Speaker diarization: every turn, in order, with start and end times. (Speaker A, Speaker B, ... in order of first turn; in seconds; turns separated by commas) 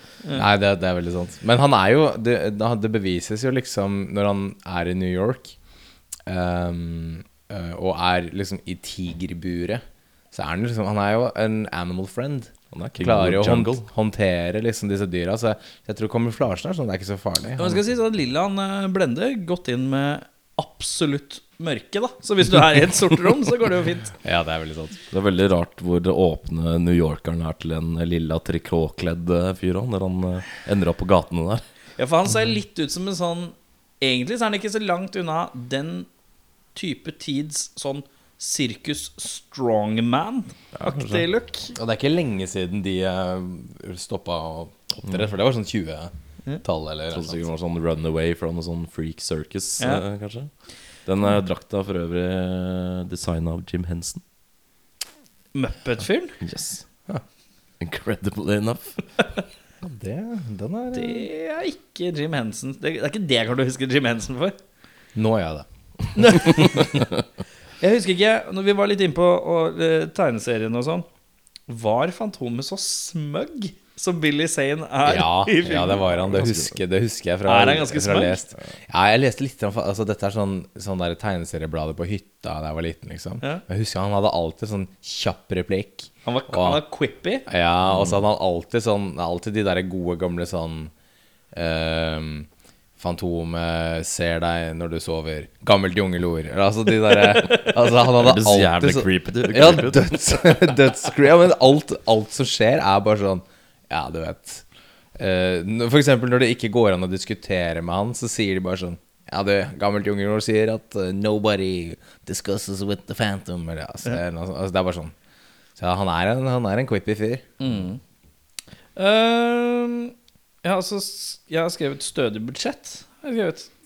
Speaker A: 0.3-5.5, Speaker A: 6.3-17.8, Speaker B: 12.7-13.8, Speaker C: 17.6-24.1, Speaker A: 24.2-25.0, Speaker B: 25.1-31.6, Speaker C: 32.0-36.1, Speaker C: 36.7-41.7, Speaker B: 40.7-41.2, Speaker A: 41.7-46.1, Speaker A: 46.6-47.5, Speaker B: 47.1-50.5, Speaker B: 51.0-54.2, Speaker C: 55.5-56.4, Speaker B: 56.4-56.8, Speaker B: 57.8-59.0, Speaker A: 59.8-61.3, Speaker C: 60.9-64.5, Speaker A: 65.1-66.8, Speaker C: 66.1-66.9, Speaker C: 67.8-71.0, Speaker C: 71.7-76.3, Speaker A: 75.0-86.8, Speaker B: 76.3-76.7, Speaker C: 77.5-78.4, Speaker C: 86.2-87.5, Speaker A: 87.5-90.9, Speaker A: 91.5-104.6, Speaker B: 98.2-100.1, Speaker A: 105.2-115.1, Speaker A: 115.8-117.5, Speaker C: 117.6-118.0, Speaker C: 119.0-123.7